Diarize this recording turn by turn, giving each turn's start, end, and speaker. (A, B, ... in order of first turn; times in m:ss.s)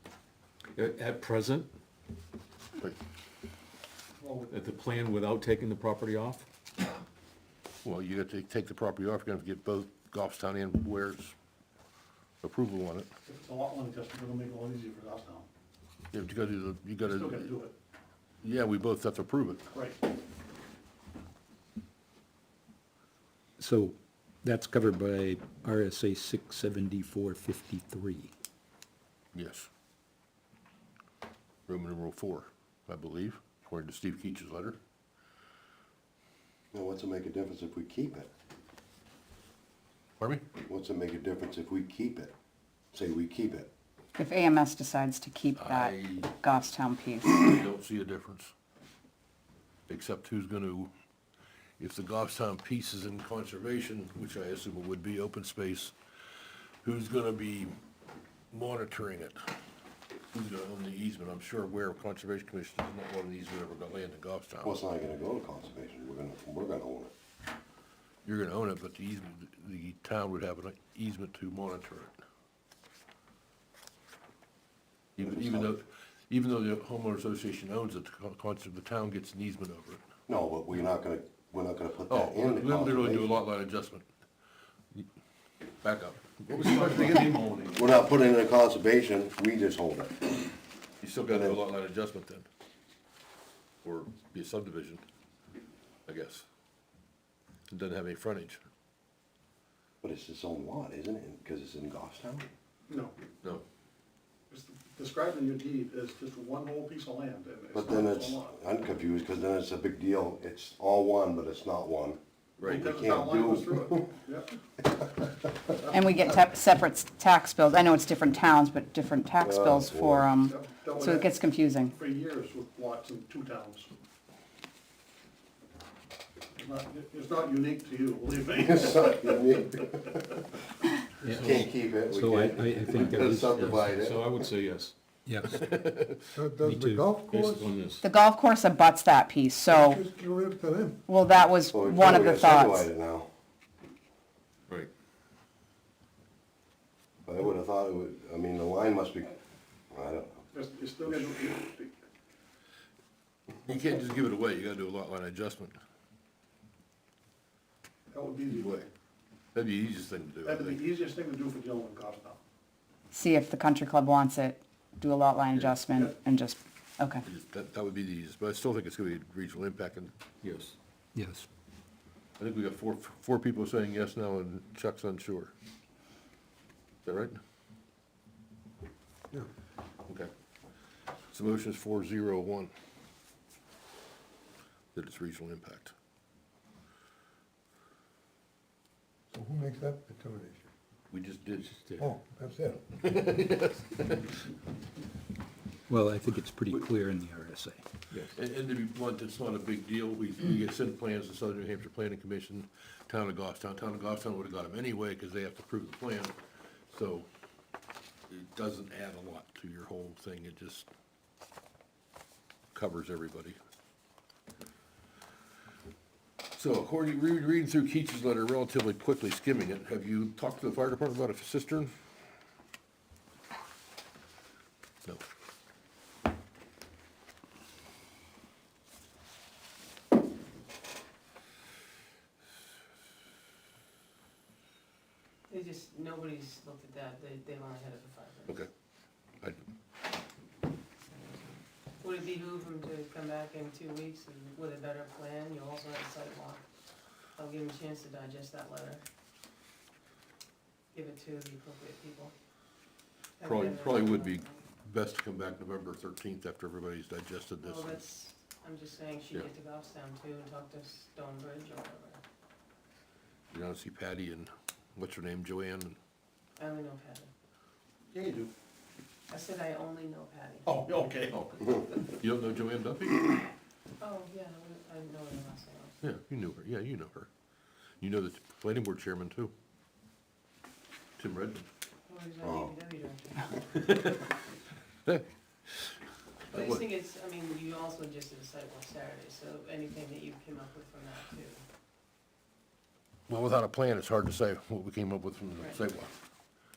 0:00.7-0:01.7 A
0:04.2-0:04.5 B
0:04.5-0:06.4 A
0:07.8-0:11.3 C
0:12.4-0:13.1 C
0:13.2-0:15.5 B
0:16.1-0:17.6 C
0:17.0-0:17.7 B
0:18.4-0:19.6 C
0:19.7-0:20.0 B
0:23.6-0:28.3 D
0:29.3-0:29.7 C
0:31.7-0:34.8 C
0:36.7-0:38.3 E
0:40.2-0:40.4 C
0:40.6-0:42.3 E
0:42.9-0:43.7 E
0:44.2-0:47.5 F
0:45.6-0:46.3 C
0:47.4-0:48.5 C
0:49.9-0:50.9 C
0:51.8-0:55.9 C
0:56.8-0:57.7 C
0:58.5-0:59.4 C
1:00.3-1:04.8 C
1:04.6-1:07.1 E
1:08.2-1:12.1 C
1:15.2-1:20.0 C
1:15.2-1:15.7 E
1:20.3-1:23.4 E
1:22.1-1:24.1 C
1:25.8-1:27.7 C
1:26.5-1:27.9 A
1:27.7-1:30.5 E
1:31.0-1:32.5 C
1:31.3-1:31.6 E
1:33.8-1:35.0 C
1:36.1-1:36.4 C
1:37.7-1:38.6 C
1:40.0-1:42.5 E
1:42.9-1:43.1 B
1:44.5-1:48.5 B
1:47.7-1:52.2 E
1:52.6-1:53.1 C
1:52.6-1:54.5 B
1:52.8-1:54.1 E
1:55.9-2:02.0 F
1:59.4-2:00.3 E
2:00.5-2:01.3 B
2:01.9-2:03.9 B
2:06.6-2:09.4 B
2:08.6-2:10.4 E
2:11.2-2:13.8 D
2:11.3-2:11.6 A
2:11.3-2:14.3 E
2:13.1-2:14.9 A
2:15.3-2:15.6 D
2:15.4-2:16.2 C
2:16.3-2:17.8 G
2:16.6-2:17.1 D
2:17.2-2:18.0 A
2:18.0-2:20.0 F
2:19.7-2:21.0 G
2:21.1-2:22.9 F
2:21.7-2:23.3 E
2:27.2-2:29.4 E
2:29.9-2:30.4 E
2:30.5-2:31.9 B
2:33.6-2:35.8 C
2:38.1-2:38.8 B
2:38.5-2:38.9 C
2:39.5-2:40.8 C
2:40.4-2:42.4 B
2:43.1-2:47.2 F
2:45.5-2:45.8 C
2:47.2-2:50.1 C
2:50.4-2:50.8 A
2:51.2-2:51.4 D
2:52.4-2:55.5 C
2:57.0-2:57.4 C
3:01.3-3:02.7 C
3:04.9-3:05.9 C
3:09.3-3:10.7 G
3:11.1-3:11.7 C
3:11.6-3:12.1 A
3:12.0-3:12.8 G
3:12.9-3:14.4 C
3:15.9-3:17.8 D
3:18.3-3:26.4 C
3:26.9-3:27.3 C
3:28.3-3:30.9 C
3:32.7-3:33.6 C
3:36.5-3:41.9 C
3:55.5-3:58.6 H
4:02.0-4:06.6 H
4:07.3-4:09.0 H
4:10.9-4:12.3 H
4:13.4-4:14.6 H
4:13.4-4:18.0 C
4:17.6-4:22.2 H
4:23.5-4:26.0 C
4:26.6-4:27.3 H
4:28.1-4:28.5 B
4:29.3-4:31.0 H
4:30.6-4:31.3 B
4:31.3-4:33.2 C
4:34.0-4:36.0 H
4:36.0-4:37.3 C
4:38.0-4:39.5 C
4:41.2-4:41.6 C
4:42.1-4:43.7 H
4:42.4-4:42.7 E
4:43.9-4:44.2 C
4:46.5-4:46.8 C
4:46.5-4:51.6 H
4:53.3-4:56.1 C